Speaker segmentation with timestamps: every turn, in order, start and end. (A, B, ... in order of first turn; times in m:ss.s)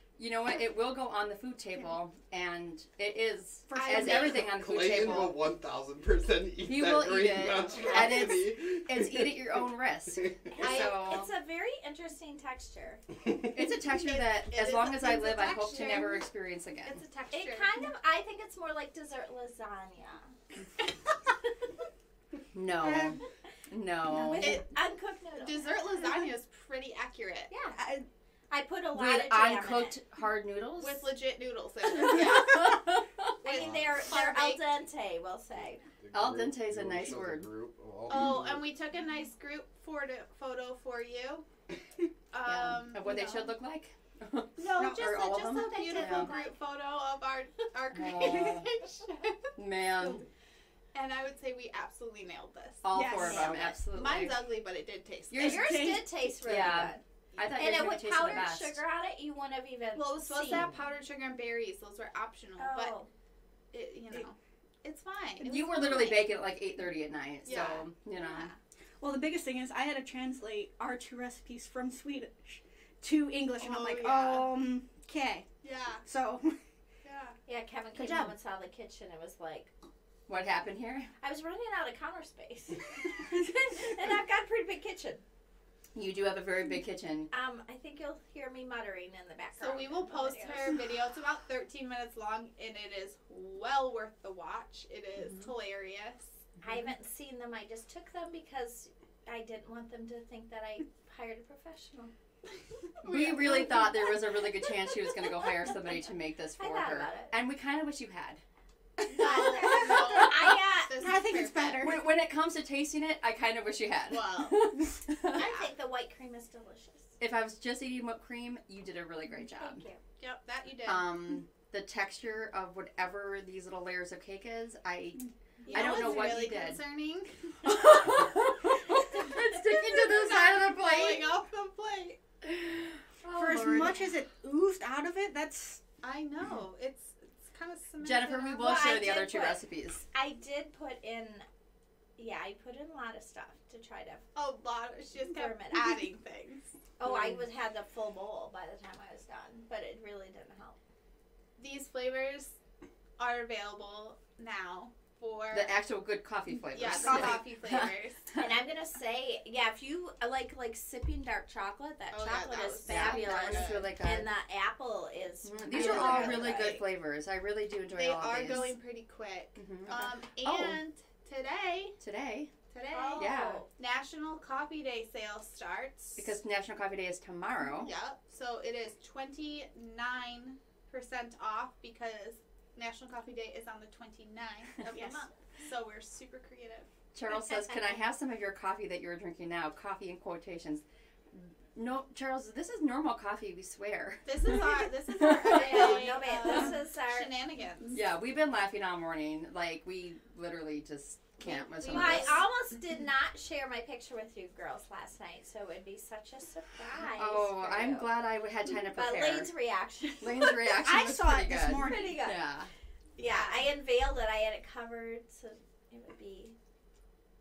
0:00.2-0:05.4 A
0:03.7-0:04.5 B
0:04.0-0:09.6 C
0:06.6-0:11.3 A
0:10.2-0:10.5 C
0:10.5-0:13.0 D
0:10.6-0:11.1 B
0:13.4-0:17.0 A
0:13.9-0:16.3 B
0:16.8-0:17.9 B
0:17.3-0:20.3 D
0:22.5-0:24.6 A
0:22.8-0:23.2 E
0:24.1-0:24.5 E
0:24.2-0:26.0 D
0:24.4-0:24.7 B
0:25.4-0:27.5 B
0:27.5-0:28.0 D
0:28.5-0:30.0 D
0:28.9-0:31.1 A
0:30.8-0:34.6 B
0:32.5-0:35.8 D
0:33.6-0:33.9 C
0:36.0-0:38.7 C
0:36.1-0:37.5 A
0:38.1-0:41.4 B
0:42.3-0:43.5 B
0:42.4-0:46.4 A
0:44.6-0:49.5 B
0:44.8-0:45.0 E
0:45.6-0:46.5 D
0:47.9-0:48.7 A
0:49.6-0:50.3 A
0:50.9-0:55.8 B
0:52.8-0:54.5 A
0:52.9-0:53.6 E
0:53.2-0:53.7 D
0:55.3-1:00.7 D
0:55.4-0:56.1 E
0:56.4-0:58.8 A
0:57.4-0:57.8 B
1:00.0-1:03.0 B
1:02.6-1:03.1 D
1:03.7-1:06.4 B
1:05.4-1:08.5 A
1:07.4-1:08.6 B
1:09.0-1:15.5 E
1:13.6-1:14.6 B
1:15.6-1:16.1 B
1:16.0-1:16.6 E
1:17.0-1:17.4 B
1:17.5-1:19.7 D
1:20.3-1:21.1 A
1:21.2-1:25.2 D
1:26.0-1:27.3 A
1:27.3-1:30.7 D
1:29.6-1:36.3 B
1:36.6-1:42.1 D
1:43.0-1:44.6 B
1:43.0-1:48.4 A
1:46.6-1:47.3 D
1:49.1-1:52.0 B
1:49.1-1:51.0 D
1:49.6-1:50.1 A
1:51.0-1:52.0 E
1:51.8-1:55.4 A
1:54.1-1:55.7 B
1:55.3-1:57.1 D
1:57.2-1:59.8 A
1:59.6-2:00.0 D
2:00.2-2:01.1 B
2:00.8-2:06.8 A
2:05.6-2:06.5 D
2:05.7-2:08.2 B
2:07.6-2:11.3 A
2:08.9-2:12.2 B
2:13.2-2:13.6 A
2:13.3-2:15.8 E
2:13.6-2:14.0 B
2:16.0-2:18.8 B
2:18.0-2:20.0 A
2:18.6-2:19.6 D
2:20.1-2:21.5 D
2:22.2-2:24.2 D
2:24.4-2:26.7 B
2:25.2-2:26.0 D
2:27.0-2:30.8 D
2:27.0-2:27.4 A
2:31.6-2:32.6 B
2:33.2-2:35.8 B
2:35.5-2:37.9 A
2:36.7-2:38.4 B
2:36.9-2:37.4 E
2:38.3-2:46.8 D
2:42.1-2:43.9 B
2:42.8-2:44.3 A
2:45.4-2:48.8 A
2:45.7-2:46.9 B
2:48.0-2:52.0 B
2:49.6-2:50.8 A
2:52.0-2:52.5 A
2:52.7-2:56.3 B
2:52.9-2:53.7 D
2:53.2-2:53.6 A
2:56.2-2:57.9 A
2:57.7-3:06.9 B
3:04.9-3:05.2 E
3:07.1-3:16.6 A
3:14.2-3:18.0 B
3:15.4-3:17.3 D
3:17.9-3:22.4 A
3:21.4-3:28.2 D
3:21.8-3:22.4 B
3:27.2-3:29.5 A
3:28.8-3:31.0 D
3:30.2-3:32.7 A
3:30.8-3:32.3 E
3:31.5-3:32.4 D
3:33.2-3:33.7 B
3:33.2-3:36.6 D